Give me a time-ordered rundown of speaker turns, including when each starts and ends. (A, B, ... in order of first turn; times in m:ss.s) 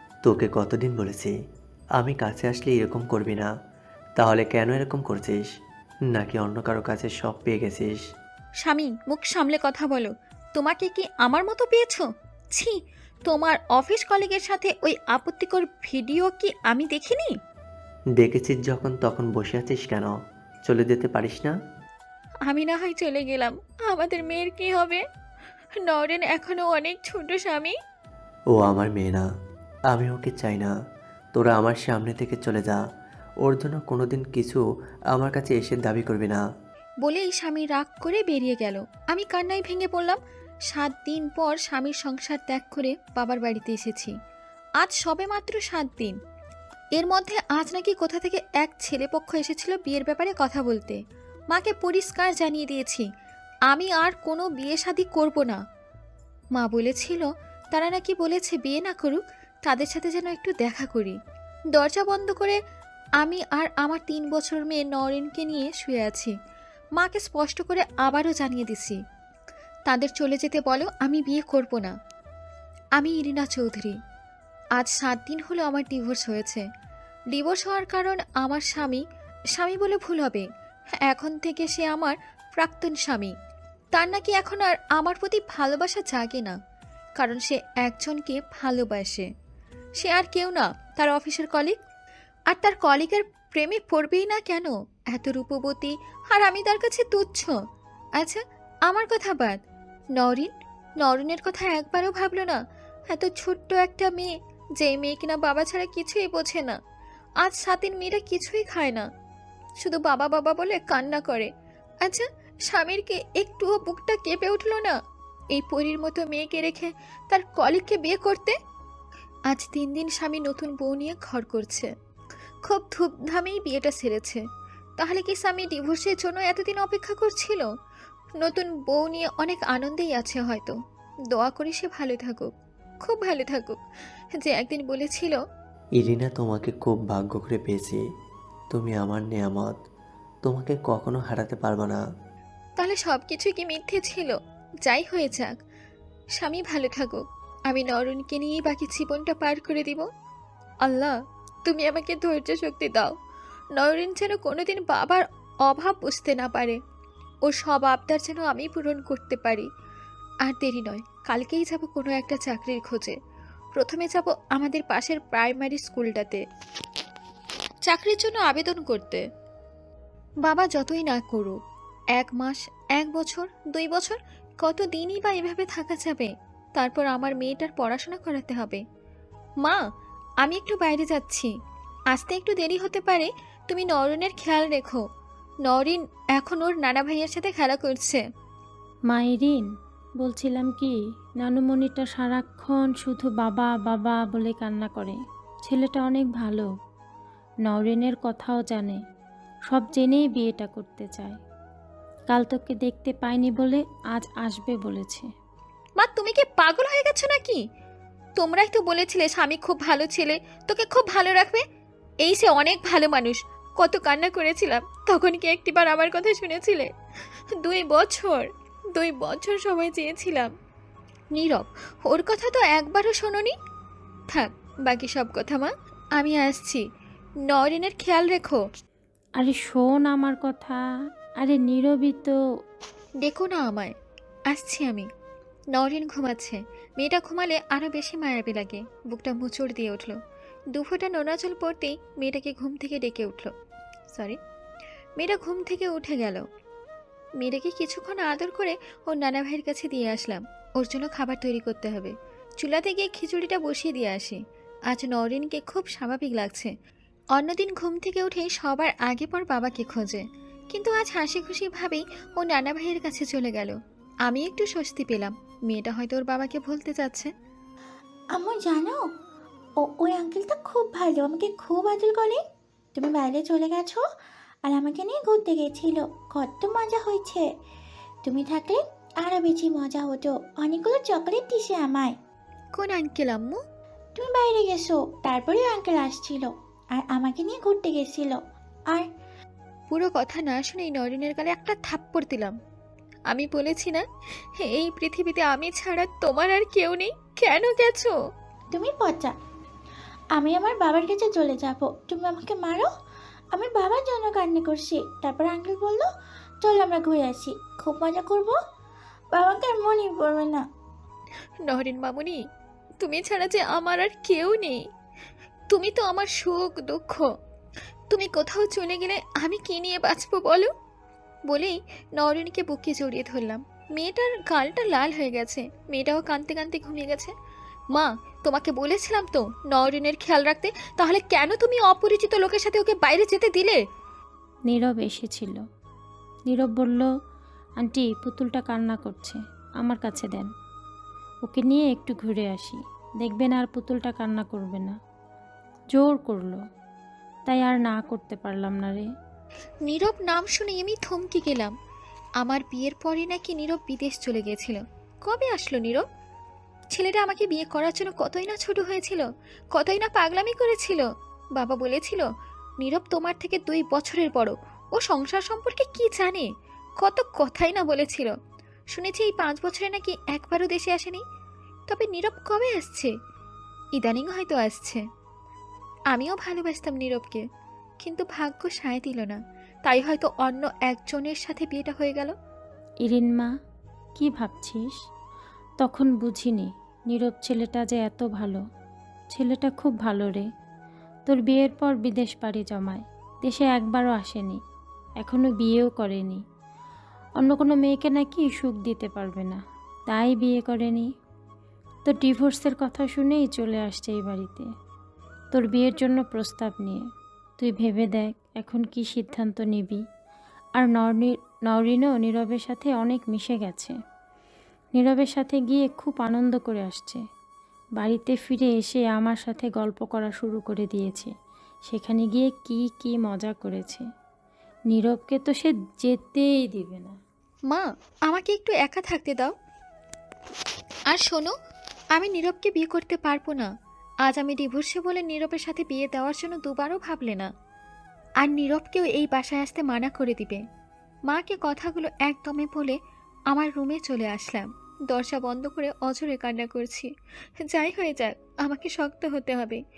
0:00.3-0:01.3 A
0:02.0-0:03.5 A
0:04.2-0:05.4 A
0:06.2-0:08.0 A
0:08.6-0:17.3 B
0:18.2-0:20.1 A
0:20.7-0:21.5 A
0:22.5-0:25.0 B
0:25.9-0:27.8 B
0:28.6-0:29.3 A
0:29.9-0:30.7 A
0:31.4-0:32.8 A
0:33.4-0:34.6 A
0:35.1-0:36.4 A
0:37.0-0:40.2 B
0:40.7-0:44.1 B
0:44.8-0:46.2 B
0:47.0-0:51.0 B
0:51.5-0:53.0 B
0:53.7-0:55.6 B
0:56.6-1:01.2 B
1:01.8-1:02.6 B
1:03.2-1:06.3 B
1:07.0-1:09.0 B
1:09.9-1:11.9 B
1:13.0-1:14.0 B
1:14.8-1:16.6 B
1:17.3-1:19.0 B
1:19.6-1:20.4 B
1:21.1-1:23.3 B
1:24.0-1:26.6 B
1:27.2-1:29.3 B
1:30.0-1:31.8 B
1:32.5-1:37.6 B
1:38.2-1:39.6 B
1:40.2-1:42.6 B
1:43.1-1:46.8 B
1:47.4-1:49.1 B
1:49.8-1:51.5 B
1:52.0-1:55.0 B
1:55.6-1:58.6 B
1:59.5-2:01.9 B
2:02.7-2:04.4 B
2:05.0-2:07.7 B
2:08.4-2:10.8 B
2:11.3-2:12.5 B
2:13.0-2:13.8 B
2:14.4-2:15.4 B
2:16.0-2:18.0 A
2:18.7-2:19.7 A
2:20.4-2:22.0 A
2:22.8-2:25.5 B
2:26.4-2:30.0 B
2:30.8-2:31.2 B
2:31.7-2:33.1 B
2:33.8-2:36.8 B
2:37.5-2:39.7 B
2:40.5-2:43.2 B
2:43.8-2:46.4 B
2:47.9-2:49.2 B
2:50.4-2:51.6 B
2:52.2-2:58.8 B
3:00.4-3:01.5 B
3:02.1-3:05.0 B
3:05.7-3:08.2 B
3:09.1-3:09.6 C
3:10.2-3:16.7 C
3:17.6-3:19.0 C
3:19.7-3:21.4 C
3:22.3-3:25.3 C
3:26.0-3:27.6 B
3:28.4-3:31.6 B
3:32.2-3:36.9 B
3:37.6-3:40.5 B
3:41.3-3:43.6 B
3:44.3-3:46.8 B
3:47.5-3:48.6 B
3:49.4-3:50.8 C
3:51.4-3:52.4 C
3:53.2-3:53.9 B
3:54.5-3:55.1 B
3:55.7-4:00.2 B
4:00.7-4:03.5 B
4:04.1-4:04.4 B
4:05.2-4:06.4 B
4:07.4-4:16.7 B
4:17.4-4:23.8 B
4:24.3-4:27.3 B
4:28.4-4:28.9 D
4:30.0-4:32.4 D
4:33.0-4:34.0 D
4:34.7-4:37.4 D
4:38.3-4:42.1 D
4:42.8-4:43.6 B
4:44.2-4:46.5 D
4:47.1-4:48.3 D
4:49.9-4:52.5 B
4:53.3-4:54.0 B
4:54.6-4:58.1 B
4:58.8-4:59.3 D
5:00.4-5:02.8 D
5:03.6-5:06.0 D
5:06.6-5:08.5 D
5:09.4-5:10.6 D
5:11.7-5:12.4 B
5:13.0-5:14.8 B
5:15.7-5:17.3 B
5:18.1-5:20.7 B
5:21.5-5:27.3 B
5:27.9-5:33.8 B
5:34.7-5:35.6 C
5:36.5-5:37.1 C
5:37.8-5:40.5 C
5:41.4-5:45.0 C
5:45.9-5:46.6 C
5:47.5-5:49.1 C
5:49.9-5:51.7 B
5:52.4-5:56.0 B
5:56.9-6:02.3 B
6:02.8-6:06.5 B
6:07.0-6:08.3 B
6:08.9-6:11.2 B
6:11.9-6:13.1 B
6:14.0-6:15.0 B
6:16.1-6:17.4 B
6:18.0-6:22.3 B
6:23.0-6:23.5 C
6:24.2-6:25.0 C
6:25.8-6:28.6 C
6:29.3-6:30.5 C
6:31.3-6:34.6 C
6:35.2-6:36.4 C
6:37.4-6:41.1 C
6:42.1-6:44.7 C
6:45.5-6:47.0 C
6:47.6-6:50.0 C
6:50.8-6:54.0 C
6:55.0-6:57.2 C
6:58.0-7:01.3 C
7:01.9-7:04.0 C
7:04.9-7:07.2 C
7:07.7-7:09.5 B
7:11.1-7:11.5 B
7:12.2-7:13.7 B
7:14.3-7:17.5 B
7:18.4-7:20.6 B
7:21.3-7:23.0 B
7:23.5-7:27.1 B
7:27.6-7:29.8 B